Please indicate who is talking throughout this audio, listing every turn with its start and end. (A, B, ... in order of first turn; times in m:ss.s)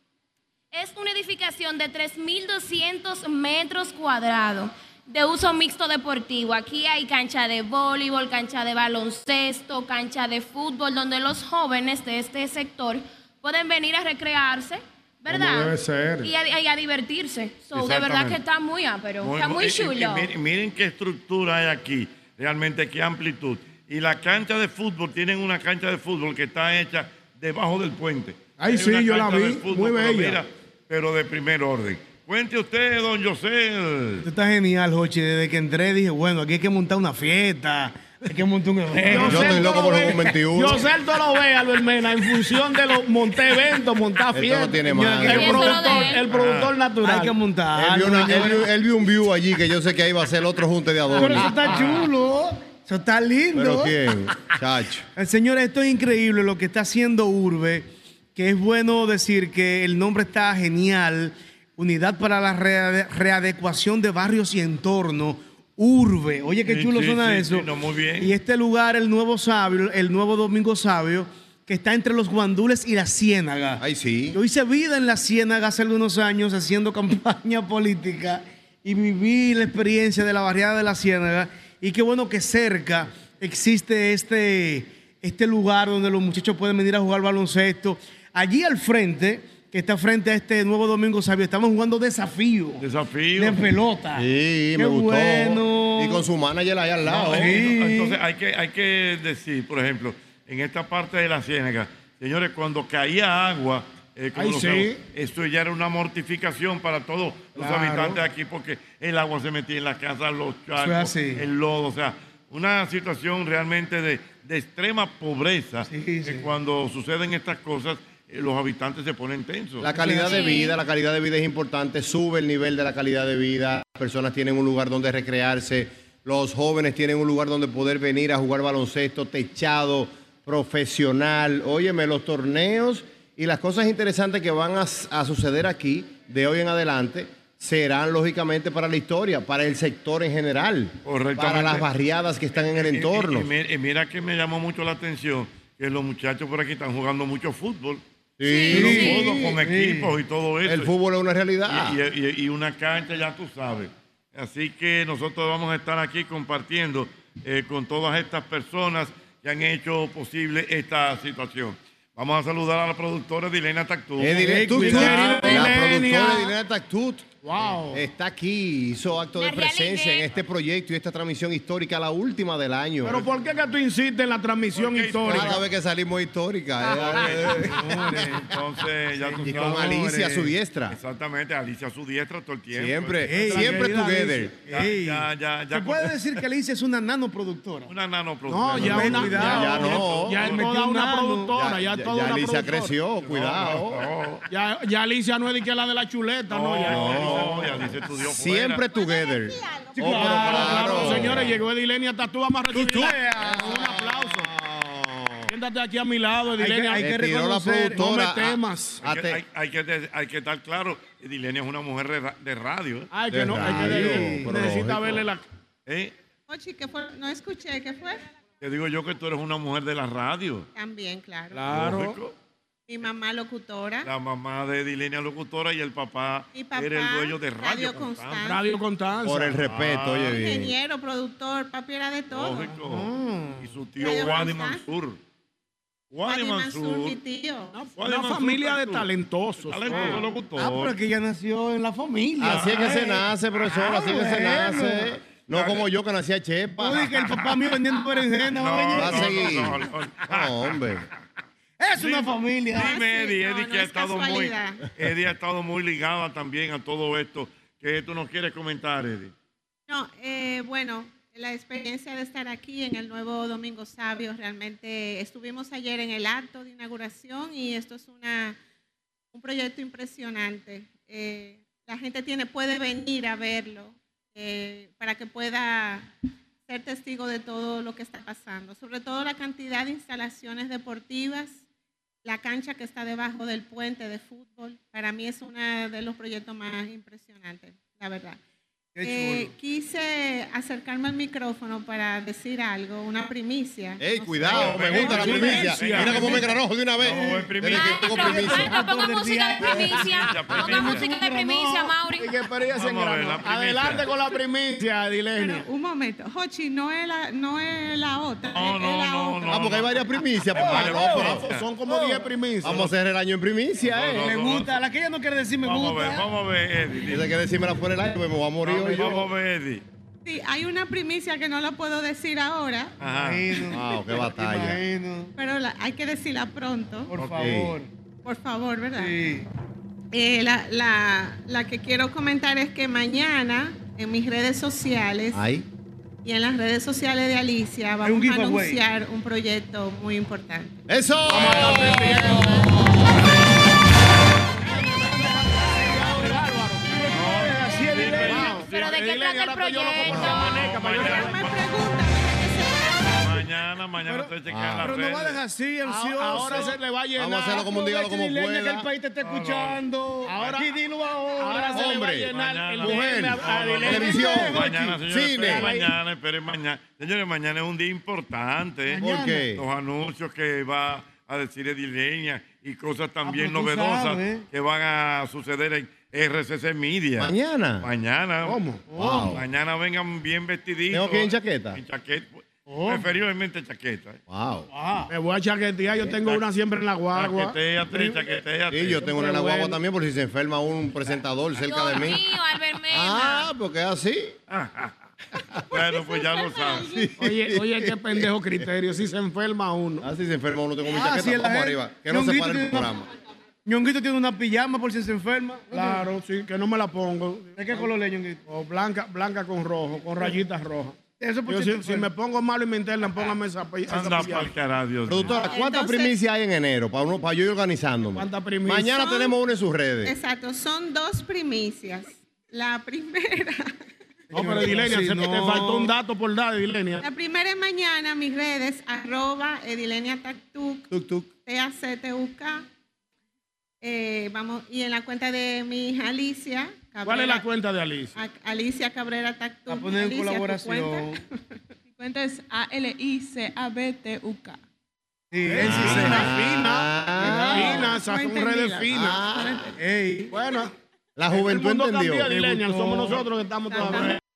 0:00.7-0:20.3 A
0:15.3-0:16.3 B
0:17.7-0:18.4 C
0:19.2-0:34.2 C
0:28.6-0:30.4 B
0:34.2-0:40.2 D
0:38.9-0:47.4 B
0:39.1-0:40.9 E
0:44.3-0:45.8 E
0:44.8-0:46.1 D
0:45.3-0:46.3 A
0:46.3-0:46.7 C
0:47.0-0:48.6 D
0:47.7-0:51.8 E
0:51.1-0:54.0 D
0:51.6-0:52.0 C
0:53.5-0:55.1 E
0:55.2-1:13.8 D
1:06.6-1:08.3 C
1:13.8-1:14.4 E
1:14.3-1:32.8 D
1:32.8-1:33.6 C
1:33.4-1:36.2 D
1:34.1-1:37.6 E
1:37.0-1:38.2 D
1:37.1-1:59.8 C
1:44.3-1:45.0 B
1:47.6-1:47.9 B
1:47.8-1:48.1 D
1:50.7-1:51.4 D
1:55.9-1:56.5 D
1:59.8-2:23.5 E
1:59.8-2:00.5 D
2:00.1-2:00.8 A
2:21.0-2:21.9 C
2:22.6-2:28.0 C
2:28.4-2:29.2 E
2:28.4-2:29.1 A
2:28.7-2:30.1 D
2:28.7-2:30.9 C
2:30.6-2:32.0 E
2:31.7-2:45.7 C
2:44.2-2:47.3 E
2:44.3-2:46.3 D
2:44.8-2:46.2 B
2:47.4-2:48.0 B
2:47.9-2:53.2 E
2:49.3-2:50.3 A
2:53.0-2:55.6 B
2:54.7-2:55.6 C
2:55.3-2:58.4 E
2:56.8-3:00.0 C
2:57.6-2:58.4 D
2:59.2-3:00.5 D
2:59.4-3:01.0 E
3:00.9-3:03.9 C
3:02.7-3:04.5 E
3:03.2-3:07.9 D
3:04.7-3:06.2 C
3:07.9-3:10.6 C
3:08.5-3:12.9 B
3:08.8-3:11.5 D
3:09.3-3:10.4 E
3:11.5-3:14.1 E
3:13.2-3:14.4 C
3:14.5-3:17.6 B
3:16.5-3:18.8 C
3:16.9-3:21.5 E
3:18.9-3:20.5 F
3:20.0-3:21.2 D
3:20.0-3:24.5 B
3:21.0-3:21.5 C
3:22.7-3:25.5 E
3:25.5-3:27.1 B
3:26.6-3:28.0 D
3:27.0-3:29.4 E
3:28.0-3:29.0 B
3:29.0-3:33.1 C
3:33.1-3:35.4 B
3:33.3-3:35.2 E
3:33.6-3:34.8 D
3:35.9-3:36.1 C
3:36.5-3:38.2 F
3:38.6-3:40.7 C
3:40.7-3:41.6 F
3:41.5-3:42.2 B
3:41.7-3:42.3 C
3:42.9-3:44.1 F
3:44.0-3:48.5 C
3:46.5-3:48.6 F
3:48.4-3:49.6 B
3:49.2-3:50.7 E
3:49.6-3:50.4 C
3:50.2-3:52.7 F
3:52.3-3:55.2 C
3:52.8-3:53.6 D
3:54.0-3:54.8 F
3:56.1-3:57.2 C
3:56.2-3:57.7 F
3:57.8-4:00.2 B
3:58.0-3:59.1 C
3:59.6-4:00.9 C
3:59.9-4:05.1 D
4:02.4-4:07.1 E
4:02.4-4:02.8 C
4:05.5-4:05.9 C
4:06.8-4:09.6 D
4:08.5-4:10.7 C
4:08.9-4:11.0 E
4:11.8-4:12.9 D
4:12.0-4:19.3 C
4:12.7-4:14.8 F
4:19.9-4:28.6 F
4:29.3-4:36.1 F
4:36.7-4:41.6 F
4:42.2-4:48.4 F
4:48.9-4:49.5 D
4:49.0-4:55.3 F
4:54.0-4:58.8 E
4:54.5-4:58.5 C
4:54.8-4:56.4 D
4:55.0-4:56.4 B
4:57.0-5:01.9 D
4:57.6-5:02.4 A
5:00.0-5:01.1 C
5:02.2-5:05.6 B
5:02.8-5:04.1 C
5:05.4-5:09.6 F
5:08.5-5:11.7 C
5:09.5-5:11.4 E
5:10.6-5:11.3 D
5:10.8-5:12.9 B
5:11.8-5:12.3 D
5:12.6-5:14.3 E
5:13.8-5:14.7 C
5:14.2-5:16.2 D
5:15.6-5:17.3 C
5:17.1-5:19.2 E
5:18.6-5:19.8 C
5:20.2-5:23.0 F
5:23.0-5:23.5 C
5:23.1-5:25.3 D
5:23.7-5:24.8 E
5:25.4-5:27.1 F
5:27.1-5:27.9 D
5:27.4-5:27.8 E
5:28.2-5:29.1 F
5:28.9-5:29.5 D
5:30.1-5:35.4 F
5:35.3-5:35.6 E
5:36.2-5:40.7 F
5:38.0-5:38.8 D
5:40.9-5:42.4 E
5:41.3-5:42.7 B
5:44.6-5:47.2 B
5:47.0-5:48.6 D
5:47.1-5:49.2 C
5:48.0-5:51.5 B
5:48.7-5:50.6 A
5:50.0-5:51.7 C
5:51.0-5:53.4 F
5:53.0-5:55.4 C
5:54.0-5:56.8 D
5:54.5-5:54.9 E
5:55.8-5:57.9 B
5:56.4-5:56.6 C
5:57.2-5:58.9 E
5:57.8-6:01.9 D
5:59.2-5:59.8 C
6:00.2-6:00.7 B
6:01.4-6:04.5 B
6:01.7-6:02.3 E
6:02.0-6:18.6 C
6:02.8-6:05.7 E
6:03.9-6:05.0 D
6:08.9-6:09.4 D
6:09.0-6:09.6 E
6:13.2-6:14.4 D
6:17.2-6:17.9 E
6:18.4-6:18.8 B
6:18.9-6:19.4 D
6:19.0-6:19.4 E
6:19.2-6:24.2 C
6:20.9-6:21.8 E
6:22.7-6:23.1 D
6:24.3-6:24.7 E
6:24.7-6:25.1 D
6:25.1-6:27.6 B
6:26.0-6:26.4 C
6:27.1-6:29.0 C
6:28.7-6:32.3 E
6:29.0-6:29.8 B
6:31.6-6:33.5 A
6:32.9-6:34.4 E
6:34.5-6:34.9 C
6:35.7-6:37.0 C
6:36.8-6:38.2 E
6:37.2-6:40.0 B
6:40.0-6:43.1 E
6:40.9-6:42.9 D
6:43.6-6:46.0 D
6:45.7-6:47.8 B
6:47.6-6:48.4 D
6:48.4-6:54.5 B
6:51.2-6:52.1 D
6:53.9-6:55.4 C
6:55.1-7:00.1 E
6:55.4-6:56.1 F
6:58.1-6:59.0 B
6:59.0-6:59.3 F
7:00.0-7:03.7 F
7:04.3-7:07.0 B
7:04.3-7:05.9 D
7:07.0-7:10.9 F
7:10.9-7:11.3 E
7:11.4-7:12.7 F
7:13.8-7:17.4 F
7:17.0-7:18.2 B
7:18.1-7:21.1 F
7:19.7-7:21.2 D
7:21.9-7:24.6 G
7:25.3-7:26.6 D
7:25.4-7:29.2 B
7:25.6-7:28.0 E
7:27.7-7:29.7 G
7:28.9-7:29.7 E
7:29.8-7:30.3 D
7:30.3-7:30.7 B
7:31.2-7:32.4 E
7:31.3-7:34.2 B
7:32.4-7:33.2 D
7:33.7-7:34.1 F